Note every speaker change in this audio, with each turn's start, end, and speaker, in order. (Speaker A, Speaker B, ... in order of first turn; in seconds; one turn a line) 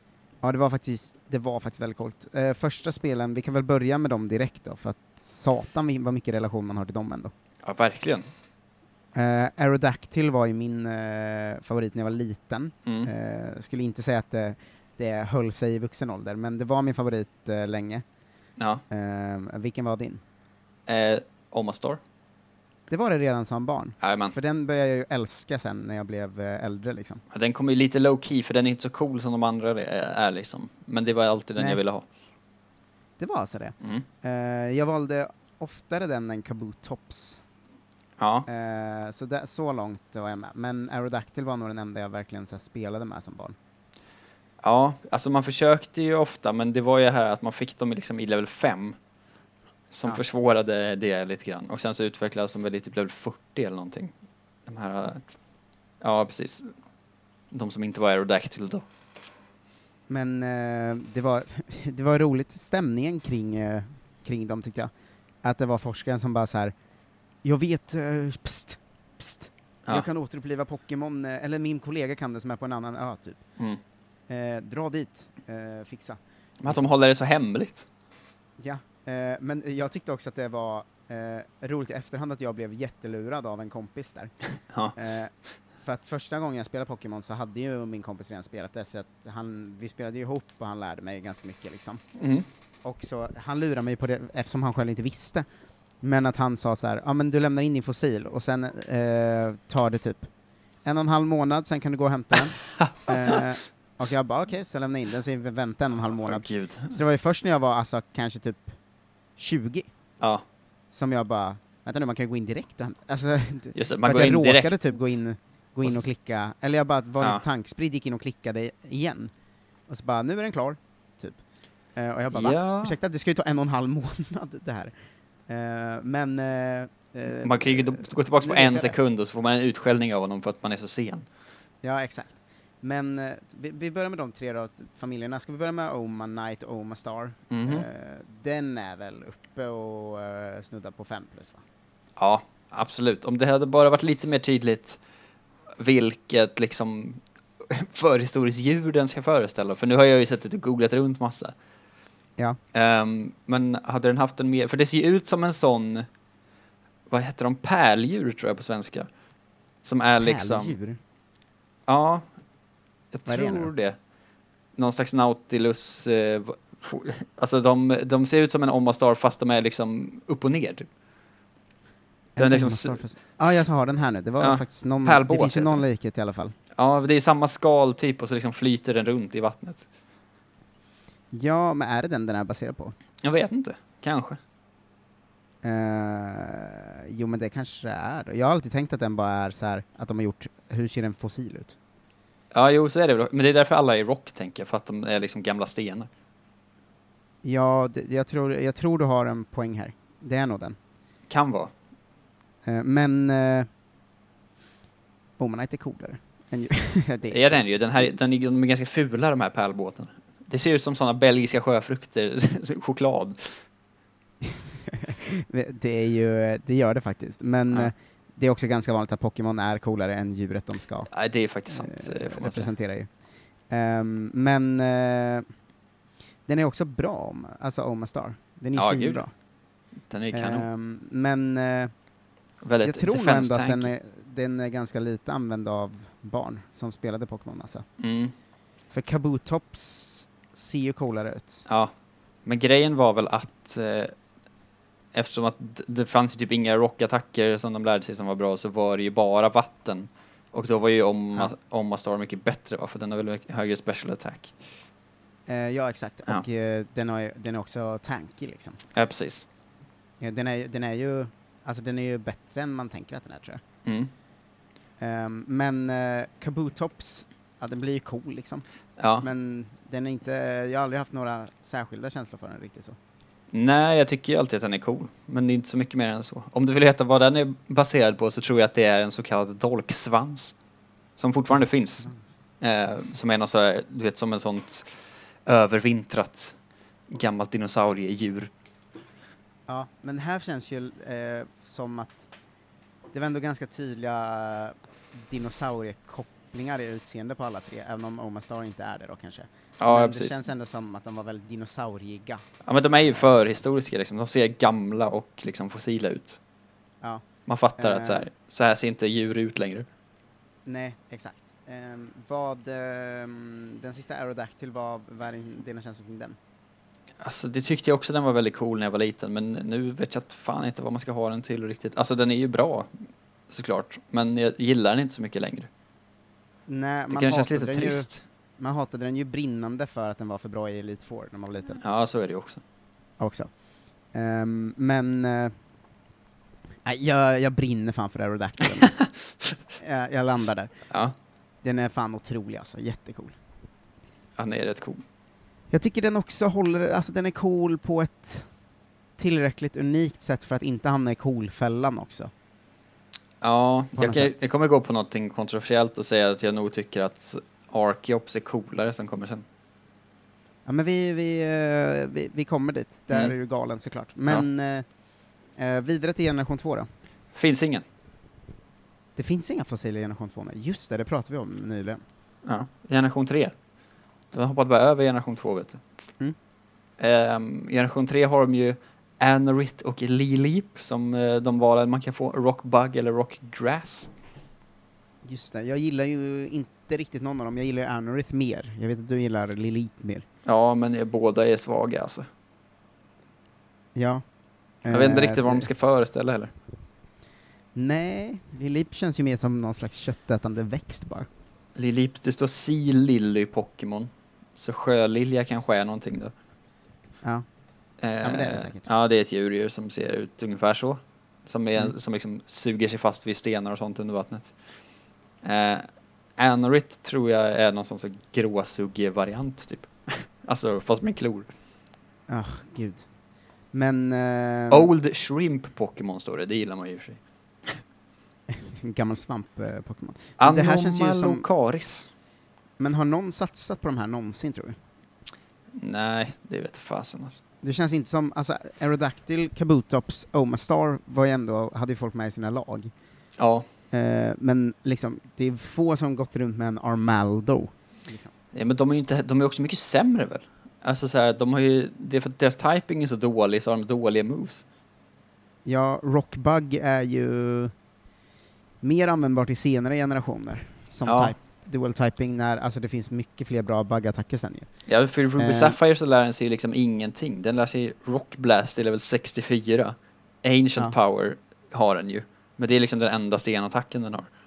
Speaker A: 0.4-7.3
Speaker B: 7.6-8.3
Speaker A: 9.2-18.0
Speaker B: 18.6-18.8
Speaker A: 18.9-20.2
Speaker B: 20.9-22.0
Speaker A: 22.9-27.2
Speaker B: 24.0-24.4
Speaker B: 27.3-32.1
Speaker A: 33.2-37.4
Speaker B: 38.2-38.5
Speaker A: 38.5-43.6
Speaker B: 44.6-49.0
Speaker B: 49.9-54.1
Speaker B: 54.7-55.2
Speaker B: 56.0-56.7
Speaker B: 57.5-58.9
Speaker A: 60.1-64.9
Speaker A: 65.4-66.7
Speaker A: 67.4-73.4
Speaker A: 74.3-76.8
Speaker B: 76.6-77.9
Speaker A: 78.6-84.3
Speaker A: 85.0-85.3
Speaker A: 85.8-92.0
Speaker B: 92.2-92.5
Speaker A: 92.8-95.5
Speaker A: 96.0-100.3
Speaker A: 100.8-108.8
Speaker B: 102.8-103.4
Speaker B: 106.3-106.9
Speaker A: 109.4-109.9
Speaker A: 110.9-119.3
Speaker B: 113.8-114.8
Speaker A: 119.9-121.4
Speaker A: 122.0-124.9
Speaker B: 122.3-123.0
Speaker A: 125.5-129.0
Speaker B: 127.4-131.3
Speaker A: 131.8-141.6
Speaker B: 137.5-137.9
Speaker B: 142.2-145.0
Speaker B: 145.8-151.6
Speaker B: 152.7-156.1
Speaker B: 157.1-159.1
Speaker B: 159.8-160.8
Speaker A: 160.2-161.0
Speaker B: 161.9-162.2
Speaker B: 163.1-164.0
Speaker A: 163.3-163.7
Speaker B: 164.8-170.9
Speaker A: 172.4-176.5
Speaker B: 172.4-173.0
Speaker B: 174.4-175.8
Speaker B: 176.8-179.9
Speaker A: 181.3-182.9
Speaker B: 183.2-184.4
Speaker A: 185.6-191.8
Speaker B: 192.5-196.1
Speaker A: 197.4-200.8
Speaker B: 201.3-201.7
Speaker A: 202.7-203.7
Speaker A: 205.4-208.1
Speaker B: 207.3-213.6
Speaker A: 214.4-221.1
Speaker B: 221.1-222.7
Speaker A: 221.7-223.1
Speaker A: 223.7-225.5
Speaker A: 226.5-229.3
Speaker B: 228.8-229.2
Speaker B: 230.1-230.7
Speaker A: 230.3-231.9
Speaker B: 232.6-233.9
Speaker A: 232.8-237.8
Speaker B: 238.0-238.3
Speaker A: 238.9-241.7
Speaker B: 241.7-241.9
Speaker B: 242.4-244.1
Speaker B: 245.1-254.5
Speaker A: 255.5-258.8
Speaker B: 258.9-259.5
Speaker A: 260.2-263.6
Speaker B: 263.9-264.1
Speaker A: 265.0-268.6
Speaker B: 269.0-269.3
Speaker A: 269.2-273.0
Speaker B: 273.5-280.6
Speaker B: 281.2-282.1
Speaker B: 282.6-284.9
Speaker B: 285.5-286.6
Speaker B: 287.1-288.5
Speaker A: 289.7-292.3
Speaker A: 293.1-302.4
Speaker B: 299.8-300.4
Speaker B: 302.6-306.4
Speaker A: 303.0-303.6
Speaker B: 307.5-309.9
Speaker A: 307.8-308.3
Speaker A: 310.7-316.4
Speaker B: 317.2-322.9
Speaker B: 323.5-325.7
Speaker A: 326.7-328.1
Speaker B: 327.1-328.2
Speaker A: 328.6-331.8
Speaker B: 331.8-332.6
Speaker A: 333.2-333.5
Speaker A: 334.1-335.5
Speaker A: 336.9-339.0
Speaker B: 338.9-339.5
Speaker A: 339.8-340.7
Speaker B: 340.9-341.1
Speaker A: 341.6-343.4
Speaker B: 344.4-345.0
Speaker A: 345.7-348.4
Speaker A: 349.2-352.3
Speaker B: 353.4-359.4
Speaker A: 354.0-354.5
Speaker A: 360.7-364.9
Speaker A: 365.6-366.9
Speaker B: 367.3-367.8
Speaker A: 369.2-372.0
Speaker B: 372.4-373.6
Speaker B: 374.3-375.8
Speaker B: 377.0-384.1
Speaker A: 385.2-390.2
Speaker B: 390.4-392.3
Speaker A: 394.0-394.2
Speaker A: 394.8-395.7
Speaker B: 394.9-396.5
Speaker A: 397.8-401.3
Speaker B: 401.8-406.3
Speaker B: 408.0-414.5
Speaker A: 408.2-408.9
Speaker B: 415.4-421.5
Speaker A: 422.3-423.1
Speaker A: 423.7-424.9
Speaker B: 424.7-427.8
Speaker A: 428.5-431.4
Speaker B: 430.4-432.1
Speaker A: 432.8-434.8
Speaker B: 435.7-437.4
Speaker A: 437.6-442.9
Speaker B: 443.4-443.7
Speaker A: 443.9-448.3
Speaker B: 448.5-454.6
Speaker A: 455.7-457.7
Speaker A: 458.8-464.7
Speaker B: 461.1-461.3
Speaker B: 464.9-474.3
Speaker A: 465.4-465.8